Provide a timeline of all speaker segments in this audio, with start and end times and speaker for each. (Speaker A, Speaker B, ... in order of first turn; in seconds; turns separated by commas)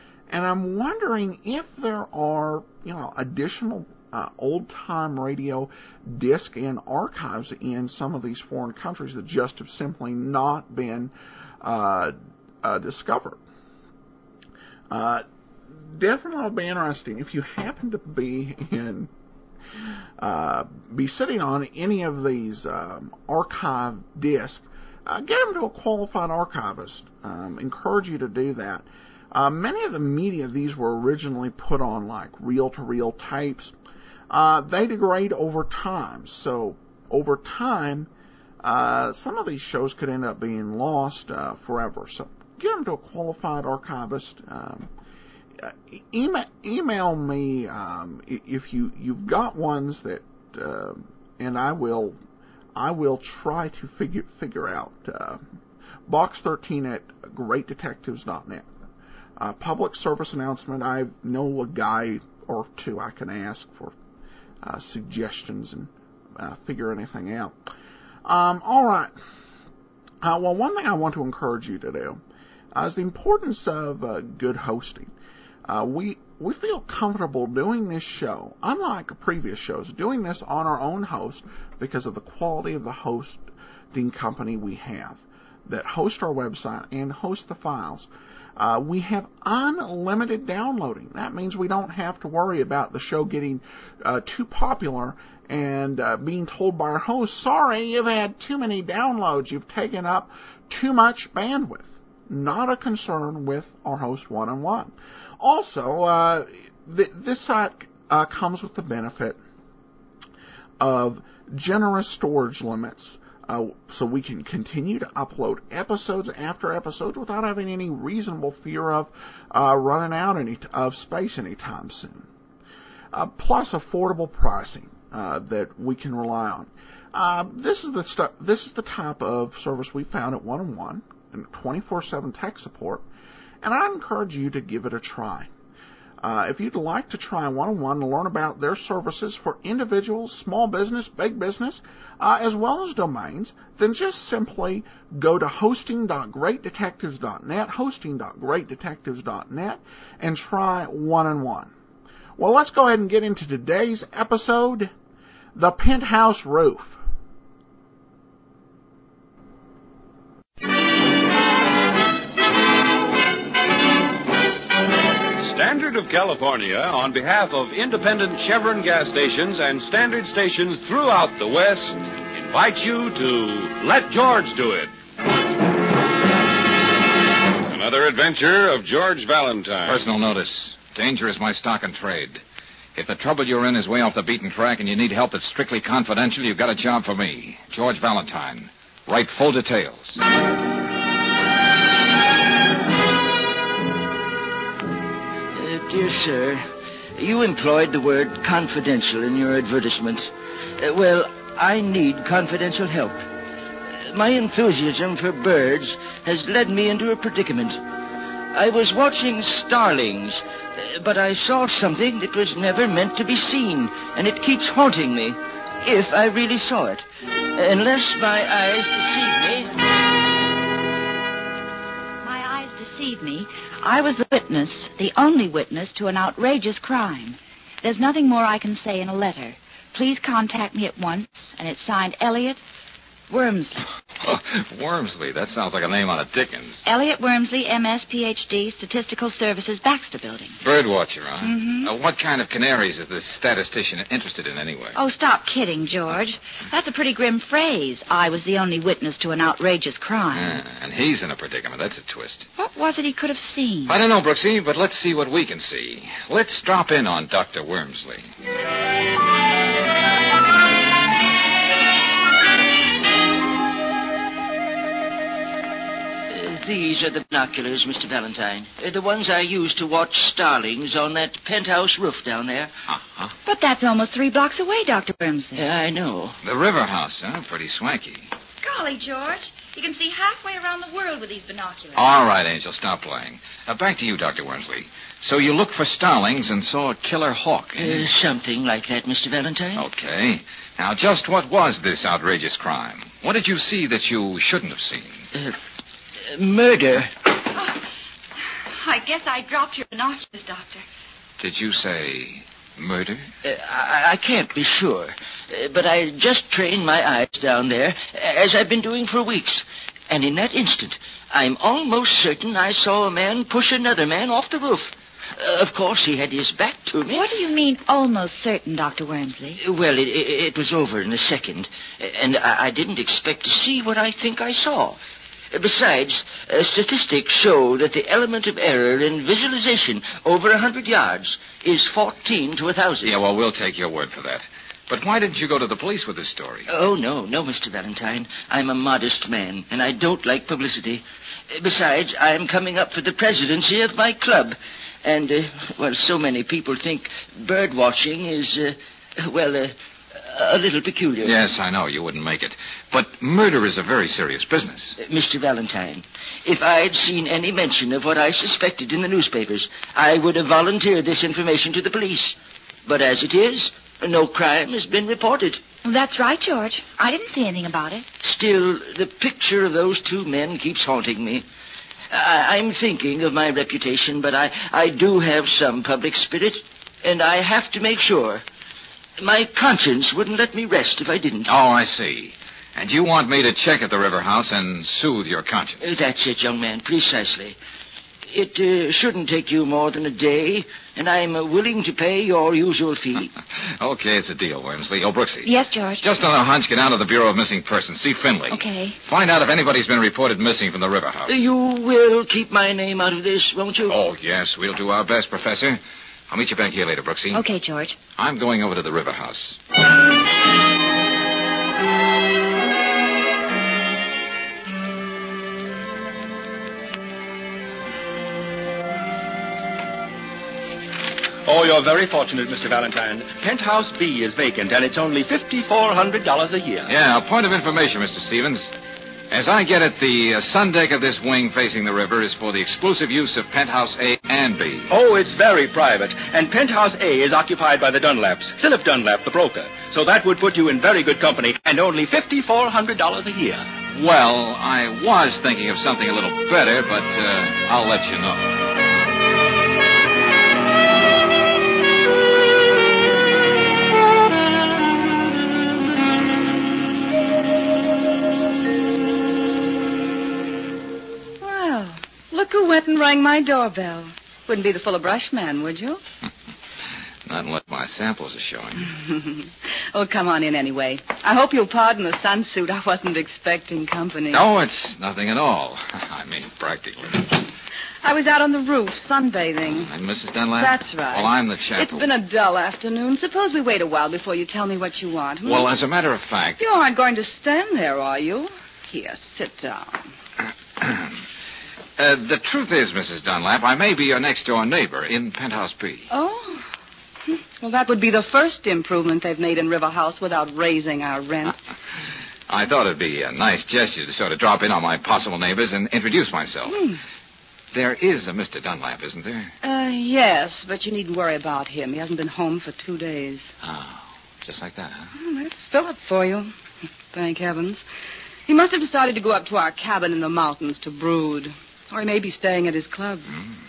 Speaker A: 0.3-13.4, Speaker A: 14.9-19.1, Speaker A: 20.2-33.7, Speaker A: 34.3-38.1, Speaker A: 38.6-44.9, Speaker A: 45.6-52.2, Speaker A: 52.8-55.4, Speaker A: 56.1-58.7, Speaker A: 59.4-64.0, Speaker A: 64.6-67.6, Speaker A: 68.3-69.1, Speaker A: 70.2-72.2, Speaker A: 72.7-75.1, Speaker A: 75.7-83.4, Speaker A: 83.9-109.4, Speaker A: 110.8-122.3, Speaker A: 123.1-133.1, Speaker A: 133.6-135.5, Speaker A: 136.2-151.7, Speaker A: 152.4-154.9, Speaker A: 155.6-157.0, Speaker B: 165.4-174.9, Speaker B: 177.7-180.1, Speaker C: 179.8-182.4, Speaker C: 182.9-190.2, Speaker D: 195.5-203.2, Speaker D: 204.0-207.8, Speaker D: 208.5-219.8, Speaker E: 222.2-232.6, Speaker E: 233.3-233.9, Speaker C: 234.2-236.8, Speaker E: 236.8-240.6, Speaker C: 240.6-245.0, Speaker E: 241.4-241.9, Speaker E: 244.9-250.6, Speaker C: 250.3-252.5, Speaker E: 252.6-254.0, Speaker C: 253.9-258.3, Speaker D: 266.3-272.7, Speaker C: 272.9-273.3, Speaker E: 273.5-275.7, Speaker D: 275.6-276.4, Speaker C: 276.4-278.3, Speaker E: 278.6-282.1, Speaker C: 281.9-288.1, Speaker D: 287.8-289.9, Speaker C: 289.8-295.3, Speaker D: 296.3-297.2, Speaker E: 298.8-300.9, Speaker C: 301.4-303.3, Speaker D: 303.4-317.3, Speaker E: 317.1-319.6, Speaker D: 319.6-325.0, Speaker D: 325.5-333.1, Speaker C: 333.0-336.7, Speaker D: 336.7-351.3, Speaker C: 351.2-355.0, Speaker D: 355.0-365.6, Speaker E: 365.8-368.1, Speaker D: 368.2-371.5, Speaker D: 372.1-378.4, Speaker D: 379.2-381.5, Speaker C: 381.5-385.9, Speaker D: 385.8-387.6, Speaker D: 388.3-393.3, Speaker C: 393.8-401.4, Speaker E: 395.4-396.0, Speaker E: 398.5-399.0, Speaker D: 401.3-404.0, Speaker C: 403.9-407.4, Speaker E: 407.3-408.0, Speaker C: 408.2-409.6, Speaker F: 421.5-426.9, Speaker C: 426.9-428.8, Speaker C: 429.3-434.9, Speaker F: 434.9-443.7, Speaker C: 443.9-448.6, Speaker G: 461.4-466.0, Speaker C: 467.2-468.9, Speaker G: 468.9-474.5, Speaker C: 474.3-477.4, Speaker G: 478.0-479.9, Speaker C: 479.6-482.1, Speaker G: 480.6-485.8, Speaker C: 485.4-486.6, Speaker G: 486.6-490.1, Speaker C: 490.8-491.1, Speaker C: 492.0-496.1, Speaker G: 496.1-496.7, Speaker G: 497.3-501.6, Speaker C: 502.5-506.8, Speaker G: 506.7-507.0, Speaker C: 507.7-509.6, Speaker G: 509.6-513.5, Speaker C: 513.6-515.1, Speaker G: 515.2-516.5, Speaker G: 517.1-517.8, Speaker G: 518.5-523.4